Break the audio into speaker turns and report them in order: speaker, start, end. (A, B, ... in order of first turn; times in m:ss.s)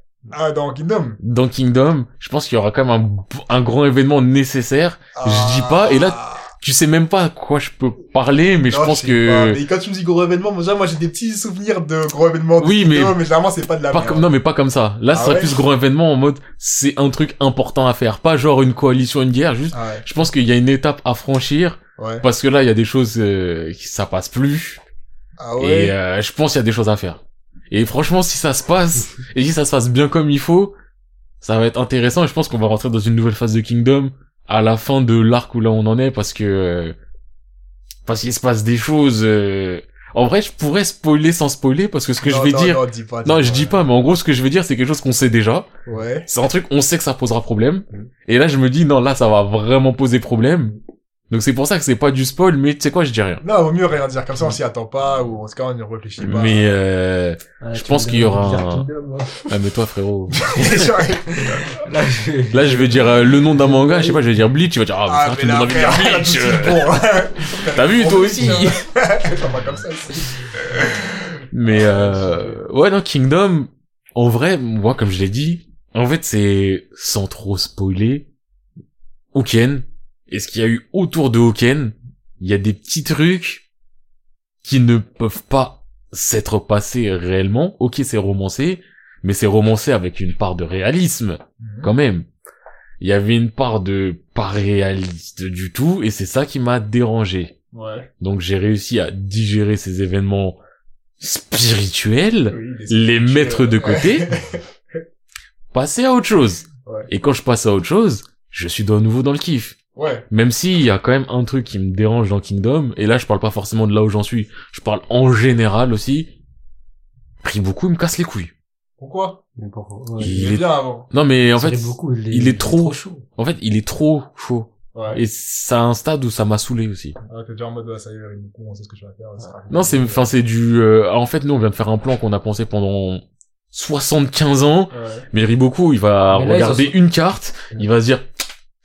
0:00.3-0:01.2 A
0:01.2-0:09.6 B
0:05.2-0:06.5 A
0:08.7-0:14.3 A
0:12.6-0:13.2 B
0:13.9-0:24.8 B
0:15.1-0:15.6 A
0:19.7-0:20.0 A
0:22.0-0:22.2 A
0:25.4-0:26.0 A
0:25.6-0:30.7 B
0:31.4-0:37.0 B
0:38.1-0:45.7 B
0:42.2-0:43.8 A
0:45.9-0:46.3 A
0:46.3-0:50.8 B
0:51.3-0:53.4 B
0:53.4-0:56.8 A
0:56.2-0:58.9 B
0:57.6-0:59.4 C
0:59.4-1:01.0 B
1:00.4-1:01.8 A
1:01.3-1:04.2 C
1:02.5-1:07.0 B
1:05.1-1:12.6 A
1:07.6-1:08.8 B
1:11.5-1:18.3 B
1:19.3-1:23.6 B
1:24.6-1:32.3 B
1:31.6-1:31.9 A
1:33.0-1:37.5 B
1:37.7-1:38.1 A
1:38.2-1:40.6 B
1:41.2-1:44.3 B
1:42.5-1:45.0 A
1:45.7-1:49.8 B
1:46.8-1:47.1 A
1:50.0-1:50.3 A
1:50.3-1:56.3 B
1:57.4-1:58.5 B
1:59.0-1:59.4 A
1:59.6-2:00.4 C
2:00.2-2:07.2 B
2:00.2-2:01.1 A
2:01.6-2:03.2 C
2:05.0-2:05.2 A
2:07.3-2:10.3 A
2:09.7-2:18.3 B
2:14.9-2:15.3 A
2:16.3-2:17.0 C